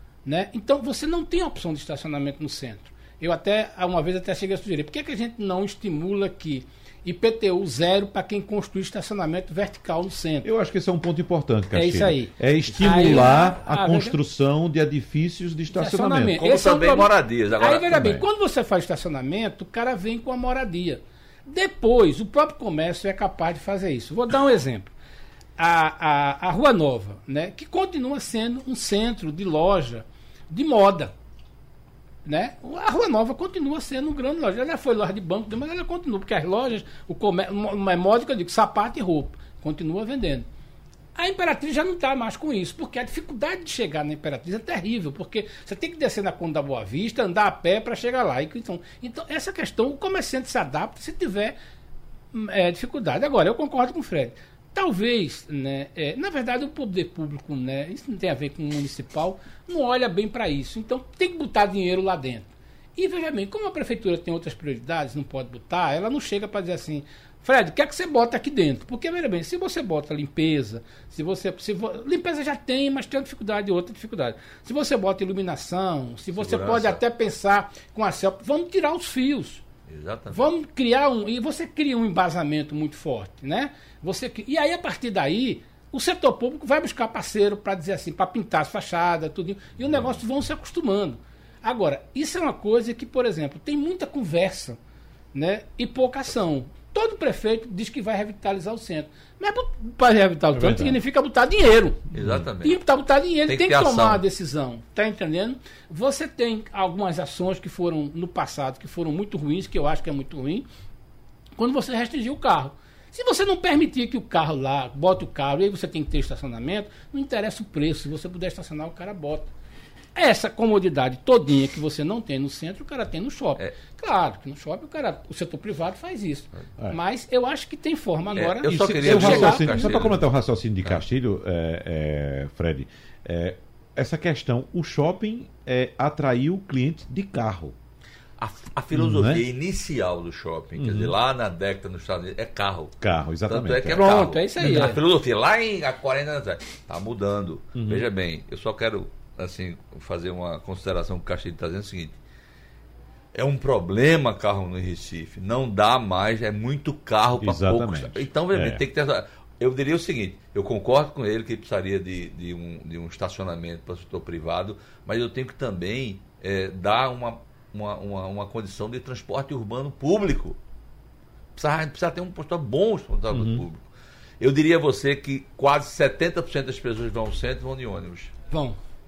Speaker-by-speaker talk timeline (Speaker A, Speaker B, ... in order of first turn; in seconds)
Speaker A: 0.2-10.5, 11.8-14.2, 15.7-24.9, 25.6-31.1, 32.2-40.5, 41.2-51.6, 52.3-79.6, 80.3-94.8, 95.3-102.0, 102.6-110.7, 111.6-119.5, 120.2-130.0, 143.9-145.0, 178.5-178.8
Speaker B: 10.4-16.4, 17.9-18.2, 100.5-101.0, 102.2-102.4, 128.7-137.8, 138.9-139.4, 140.8-141.1, 143.0-145.0, 147.8-148.1, 157.4-158.8, 173.3-173.7
Speaker C: 16.4-18.1, 76.3-77.0, 79.9-80.5, 102.1-102.8, 103.5-104.2, 128.3-130.3, 138.4-142.9, 143.5-152.2, 153.3-170.6, 171.6-173.9, 174.4-178.3